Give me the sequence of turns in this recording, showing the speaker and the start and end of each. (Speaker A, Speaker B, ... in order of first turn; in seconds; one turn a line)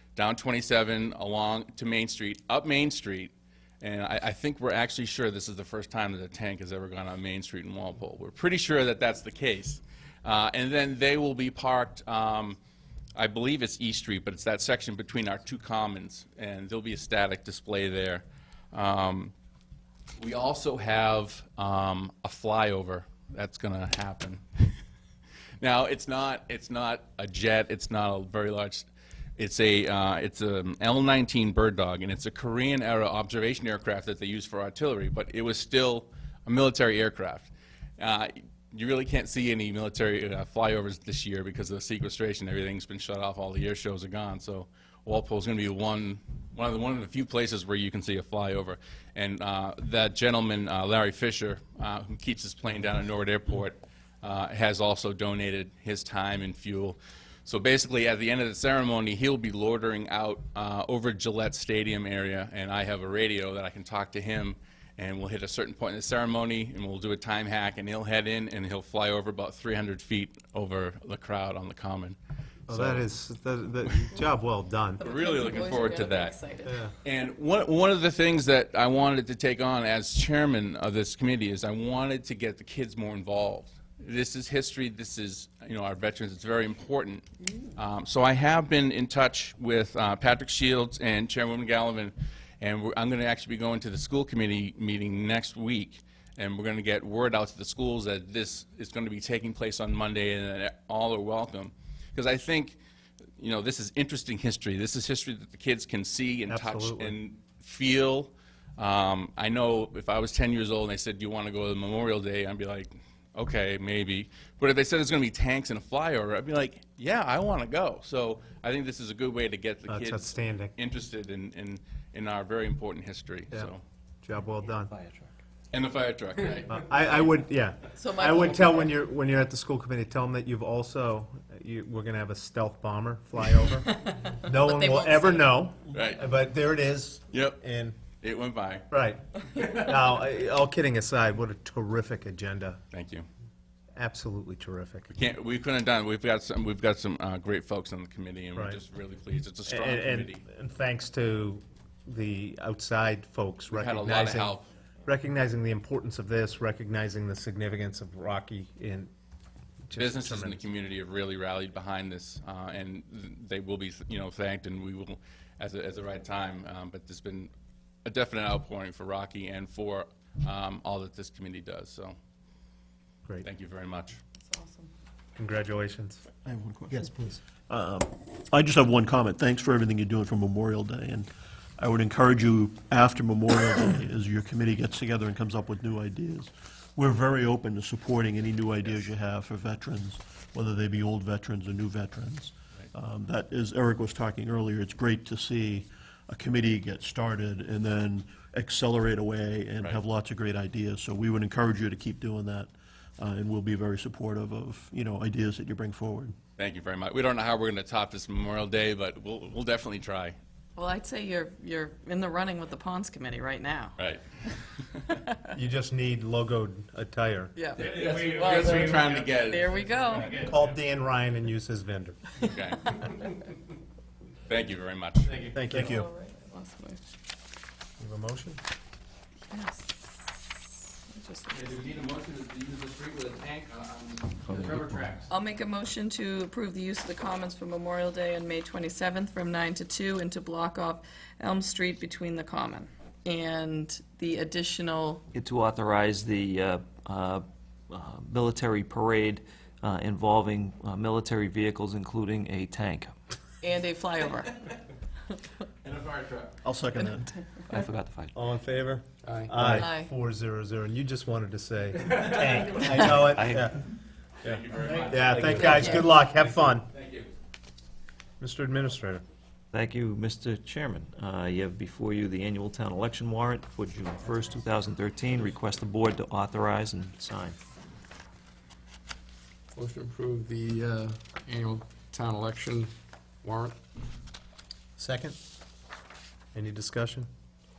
Speaker A: 0.2-12.6
Speaker A: 13.2-19.3
Speaker A: 20.2-24.7
Speaker A: 25.6-72.2
Speaker A: 72.7-73.0
Speaker B: 72.7-75.0
Speaker C: 75.0-76.8
Speaker A: 75.0-76.4
Speaker B: 76.7-76.9
Speaker A: 77.0-87.2
Speaker A: 87.8-102.8
Speaker A: 103.4-123.8
Speaker B: 106.5-107.2
Speaker B: 119.9-120.7
Speaker B: 124.2-124.9
Speaker D: 125.0-125.2
Speaker A: 125.7-126.9
Speaker B: 126.7-133.9
Speaker C: 128.0-128.9
Speaker C: 133.9-135.6
Speaker B: 134.4-138.0
Speaker A: 135.9-136.2
Speaker A: 137.3-137.6
Speaker A: 138.2-138.9
Speaker B: 138.9-142.8
Speaker A: 142.9-143.3
Speaker B: 143.9-145.1
Speaker A: 145.1-150.4
Speaker B: 148.6-148.8
Speaker B: 149.7-159.1
Speaker A: 153.7-154.7
Speaker B: 159.9-160.6
Speaker A: 160.0-167.5
Speaker A: 168.1-172.2
Speaker A: 173.4-174.2
Speaker C: 174.4-174.9
Speaker B: 175.4-176.2
Speaker E: 176.4-177.2
Speaker B: 176.9-177.4
Speaker E: 177.7-206.4
Speaker A: 206.6-210.4
Speaker C: 210.8-213.9
Speaker A: 214.0-215.1
Speaker B: 215.5-217.6
Speaker C: 217.6-220.5
Speaker A: 217.8-220.3
Speaker B: 220.2-222.2
Speaker A: 222.4-223.4
Speaker A: 224.4-226.0
Speaker B: 225.5-226.1
Speaker C: 225.7-227.0
Speaker B: 228.0-228.6
Speaker C: 229.5-230.0
Speaker C: 231.1-231.7
Speaker A: 231.5-235.3
Speaker D: 234.5-234.9
Speaker C: 235.3-245.2
Speaker D: 245.3-253.1
Speaker C: 253.6-254.7
Speaker A: 255.8-256.6
Speaker E: 256.6-257.4
Speaker C: 257.0-257.8
Speaker D: 257.7-258.4
Speaker B: 258.4-263.9
Speaker F: 259.2-259.8
Speaker C: 259.7-260.1
Speaker A: 262.1-263.0
Speaker C: 262.8-263.1
Speaker D: 263.1-263.7
Speaker A: 264.4-267.3
Speaker B: 264.4-266.9
Speaker F: 265.3-265.8
Speaker C: 265.6-266.1
Speaker B: 268.4-269.2
Speaker D: 269.7-277.6
Speaker F: 279.7-283.8
Speaker B: 285.0-285.4
Speaker B: 286.5-287.3